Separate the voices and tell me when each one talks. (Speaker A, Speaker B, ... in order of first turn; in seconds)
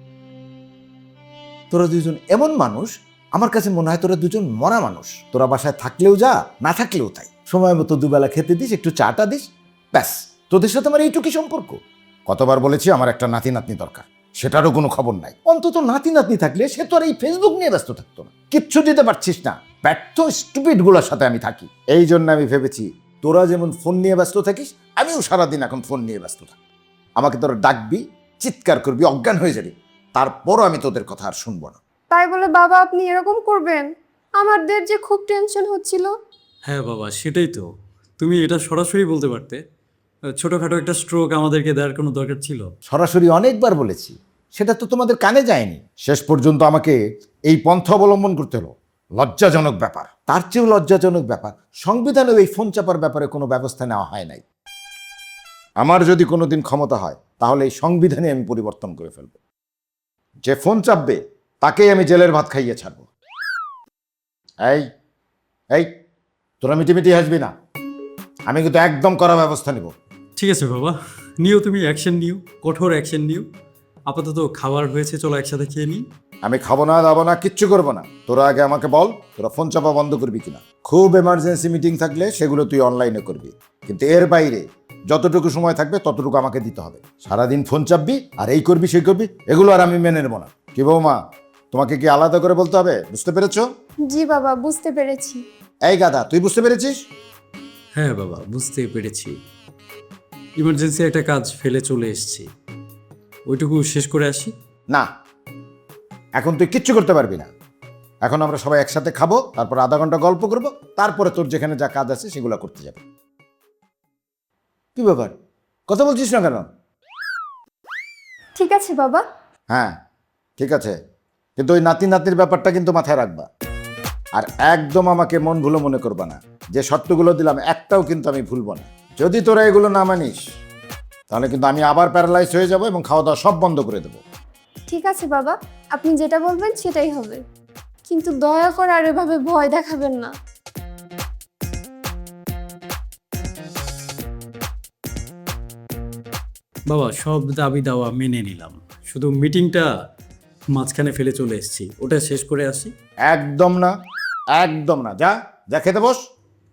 Speaker A: 1.7-26.5, 27.2-31.8, 42.9-54.4, 55.8-59.4, 60.5-63.1, 66.6-67.5, 68.5-69.9, 76.4-91.2, 91.7-93.7, 95.9-96.9, 106.4-107.5, 108.2-113.0, 115.0-115.3, 115.9-116.6, 120.6-121.0, 121.6-123.5, 124.4-130.4, 131.3-134.2, 153.3-153.9, 154.6-156.2
Speaker B: 32.1-33.9, 34.4-36.1, 94.1-95.4, 118.6-119.2, 134.9-137.4, 138.1-140.3
Speaker C: 36.7-37.7, 38.2-39.6, 40.4-42.7, 70.4-73.5, 74.1-76.0, 98.0-99.4, 100.6-102.5, 103.5-104.5, 146.9-149.9, 150.7-152.9